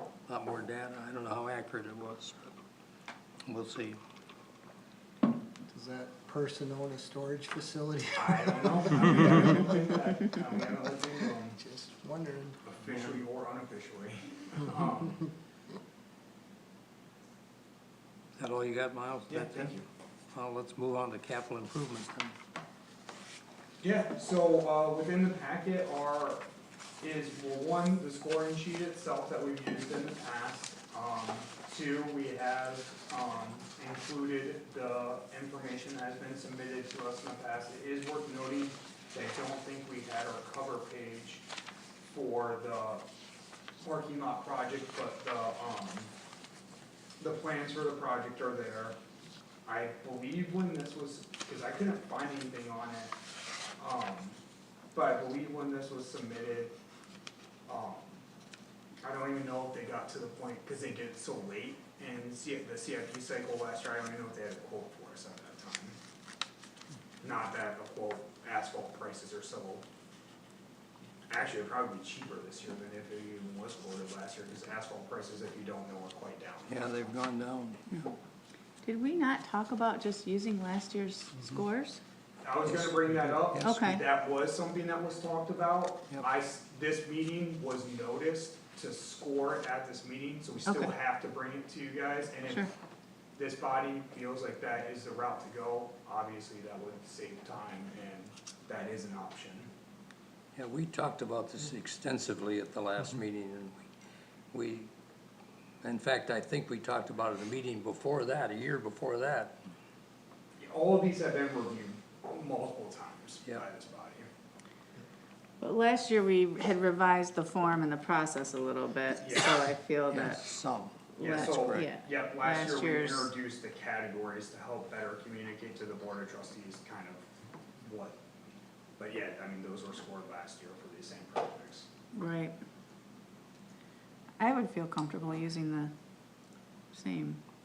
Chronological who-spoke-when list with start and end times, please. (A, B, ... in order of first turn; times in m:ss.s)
0:00.3-0:02.6 A
0:03.5-0:04.0 A
0:05.7-0:09.6 B
0:08.2-0:11.6 C
0:11.5-0:12.6 B
0:12.6-0:15.3 C
0:12.9-0:13.2 A
0:18.4-0:19.8 A
0:19.3-0:19.8 C
0:20.3-0:22.3 A
0:23.8-0:26.4 C
0:27.0-0:41.4 C
0:42.1-0:43.0 C
0:43.8-0:46.1 C
0:47.2-0:49.0 C
0:49.6-0:53.1 C
0:53.8-0:54.4 C
0:54.9-0:56.7 C
0:57.7-0:58.2 C
0:59.0-1:05.9 C
1:07.2-1:09.8 C
1:11.3-1:16.7 C
1:16.7-1:17.8 A
1:18.8-1:22.0 D
1:22.4-1:32.6 C
1:22.7-1:24.0 A
1:23.6-1:24.0 D
1:30.6-1:30.9 D
1:33.4-1:39.7 C
1:40.5-1:43.8 A
1:44.5-1:44.9 A
1:45.8-1:49.6 A
1:50.6-1:54.3 C
1:55.6-2:00.4 D
1:59.2-1:59.7 C
2:00.1-2:01.9 A
2:01.2-2:03.3 D
2:01.2-2:07.2 C
2:07.8-2:08.2 C
2:09.0-2:11.9 C
2:12.1-2:12.6 D
2:14.4-2:15.9 D
2:16.9-2:17.4 D